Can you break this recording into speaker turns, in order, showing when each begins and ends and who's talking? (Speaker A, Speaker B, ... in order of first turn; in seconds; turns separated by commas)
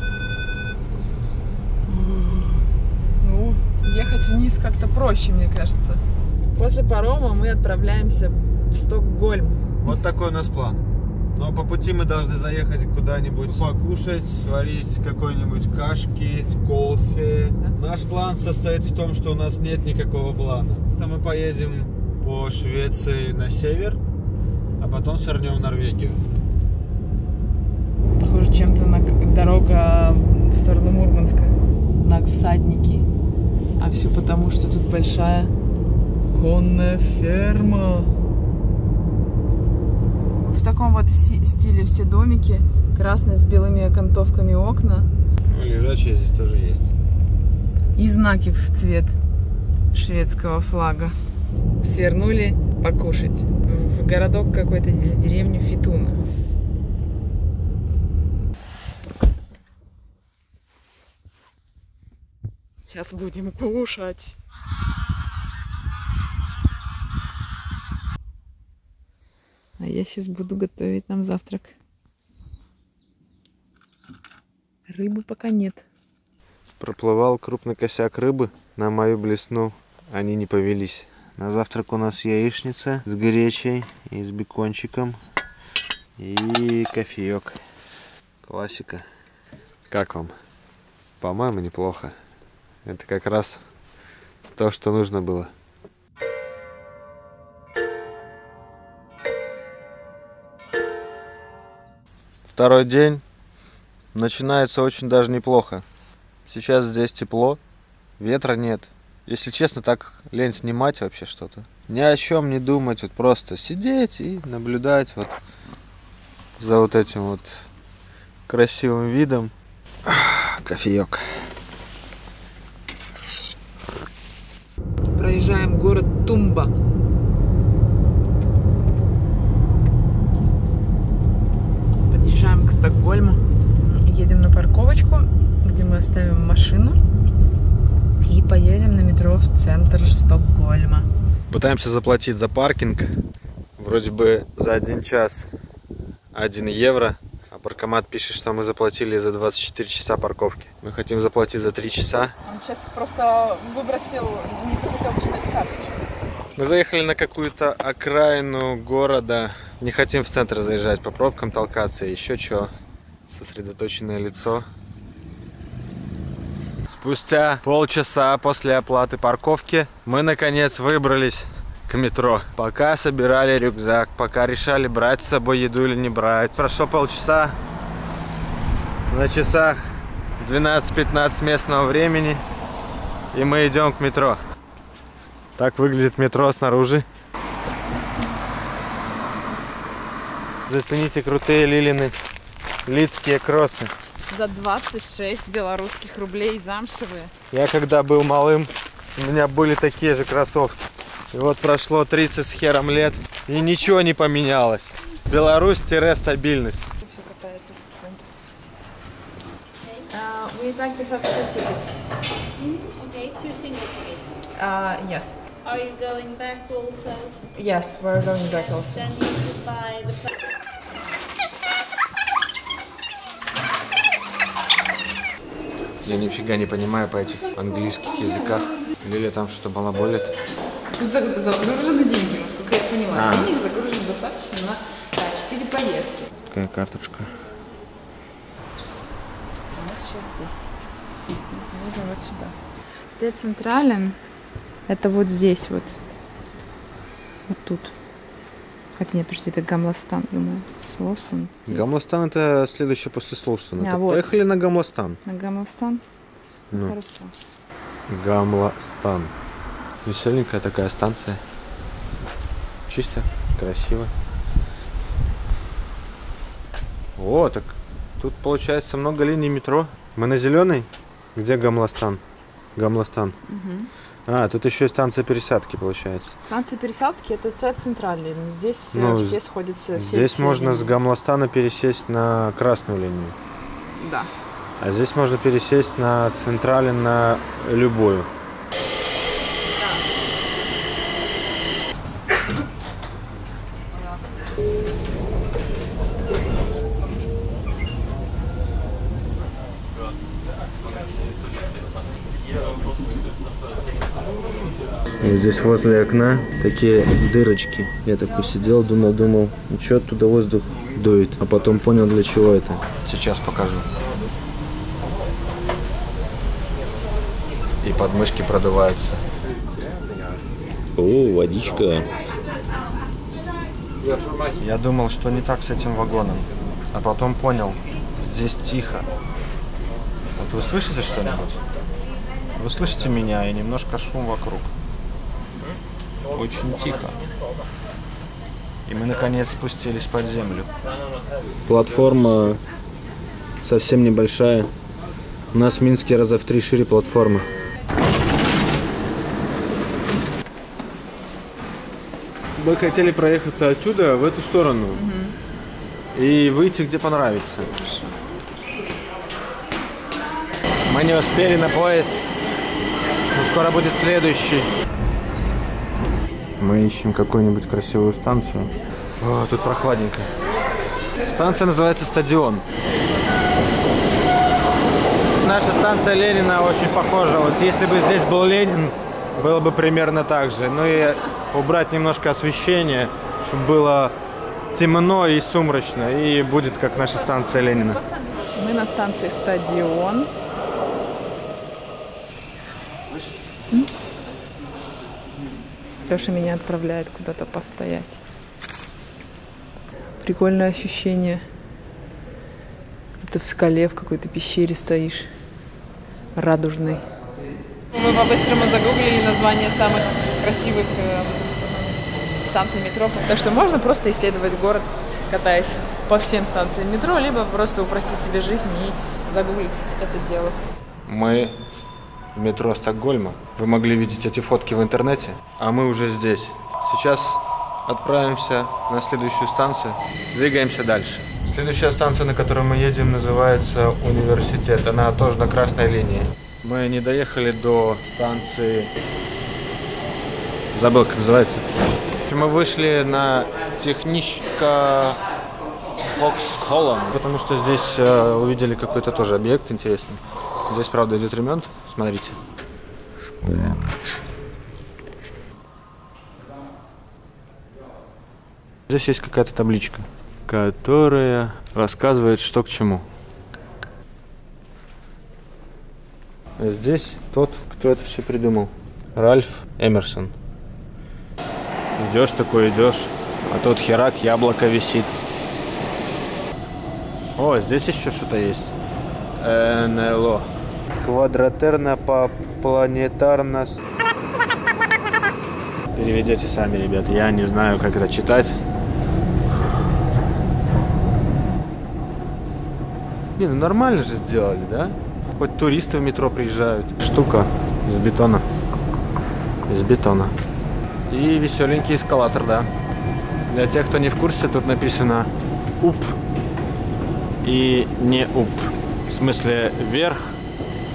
Speaker A: 1.9-2.7, Speaker A: 3.2-9.7, Speaker B: 9.8-24.0, Speaker B: 24.8-26.2, Speaker A: 28.2-33.0, Speaker A: 33.8-35.5, Speaker A: 36.3-38.1, Speaker A: 40.5-45.1, Speaker B: 45.5-46.9, Speaker A: 48.0-49.1, Speaker A: 49.9-51.1, Speaker A: 51.8-56.2, Speaker A: 62.9-64.4, Speaker A: 69.8-71.7, Speaker A: 74.9-75.8, Speaker B: 76.8-85.2, Speaker B: 86.2-87.6, Speaker B: 88.4-89.1, Speaker B: 89.9-90.3, Speaker B: 91.2-92.2, Speaker B: 92.8-93.6, Speaker B: 94.5-95.5, Speaker B: 102.5-103.2, Speaker B: 104.1-105.8, Speaker B: 106.5-107.6, Speaker B: 108.2-115.4, Speaker B: 116.6-117.6, Speaker B: 118.5-119.5, Speaker B: 120.0-121.4, Speaker A: 125.1-126.7, Speaker A: 132.1-137.0, Speaker A: 138.2-141.1, Speaker B: 141.5-143.1, Speaker B: 143.8-145.5, Speaker B: 146.3-152.3, Speaker A: 152.4-156.0, Speaker B: 156.6-162.7, Speaker B: 163.3-164.7, Speaker B: 166.8-177.6, Speaker B: 179.1-179.8, Speaker B: 180.4-182.4, Speaker B: 183.3-184.4, Speaker B: 185.6-187.1, Speaker B: 190.7-192.1, Speaker B: 192.9-193.9, Speaker A: 194.3-197.3, Speaker B: 197.5-200.8, Speaker B: 201.3-206.9, Speaker A: 207.0-208.2, Speaker A: 210.1-212.0, Speaker C: 212.6-214.4, Speaker A: 214.6-215.4, Speaker C: 215.6-217.5, Speaker A: 217.5-219.1, Speaker C: 218.4-220.3, Speaker B: 226.0-230.4, Speaker A: 230.9-236.3, Speaker B: 233.1-233.5, Speaker B: 236.5-237.3, Speaker A: 239.7-240.7, Speaker A: 241.5-242.6, Speaker A: 243.2-244.2, Speaker A: 244.9-246.0, Speaker A: 247.5-247.9, Speaker A: 249.0-251.9, Speaker B: 251.7-255.2, Speaker A: 253.8-254.3, Speaker A: 255.2-256.0, Speaker A: 256.7-257.3, Speaker B: 258.1-259.3, Speaker B: 260.1-261.4, Speaker B: 262.9-264.1, Speaker B: 267.2-272.2, Speaker B: 272.8-273.4, Speaker A: 273.5-273.9, Speaker B: 274.3-276.4, Speaker A: 276.5-281.0, Speaker B: 278.9-279.4, Speaker B: 279.9-283.4, Speaker A: 284.0-284.3, Speaker B: 284.8-288.3, Speaker A: 289.6-290.0, Speaker B: 305.2-313.9, Speaker B: 317.8-319.2, Speaker B: 321.0-322.1, Speaker B: 324.5-329.1, Speaker B: 330.4-331.6, Speaker B: 332.6-334.7, Speaker B: 336.3-337.2, Speaker B: 338.9-340.7, Speaker B: 341.7-342.6, Speaker B: 343.6-344.7, Speaker B: 345.5-347.5, Speaker B: 352.6-355.0, Speaker A: 354.9-355.4, Speaker B: 356.1-357.7, Speaker A: 357.8-358.2, Speaker B: 360.9-362.2, Speaker B: 363.3-364.7, Speaker B: 366.6-370.3, Speaker B: 371.3-372.6, Speaker B: 375.4-384.1, Speaker B: 384.7-388.0, Speaker A: 387.3-390.3, Speaker A: 396.1-398.2, Speaker A: 400.2-401.4, Speaker A: 403.2-405.3, Speaker A: 406.4-407.1, Speaker A: 407.9-420.6, Speaker B: 421.1-421.6, Speaker B: 422.3-438.9, Speaker B: 440.7-441.7, Speaker B: 442.3-445.2, Speaker B: 446.1-452.4, Speaker B: 458.9-463.1, Speaker B: 466.6-470.3, Speaker B: 472.0-475.2, Speaker B: 477.4-478.7, Speaker B: 479.4-483.8, Speaker B: 485.9-488.6, Speaker B: 493.4-498.4, Speaker B: 499.7-500.3, Speaker B: 501.1-502.7, Speaker B: 503.5-505.3, Speaker B: 505.8-506.2, Speaker B: 507.4-510.3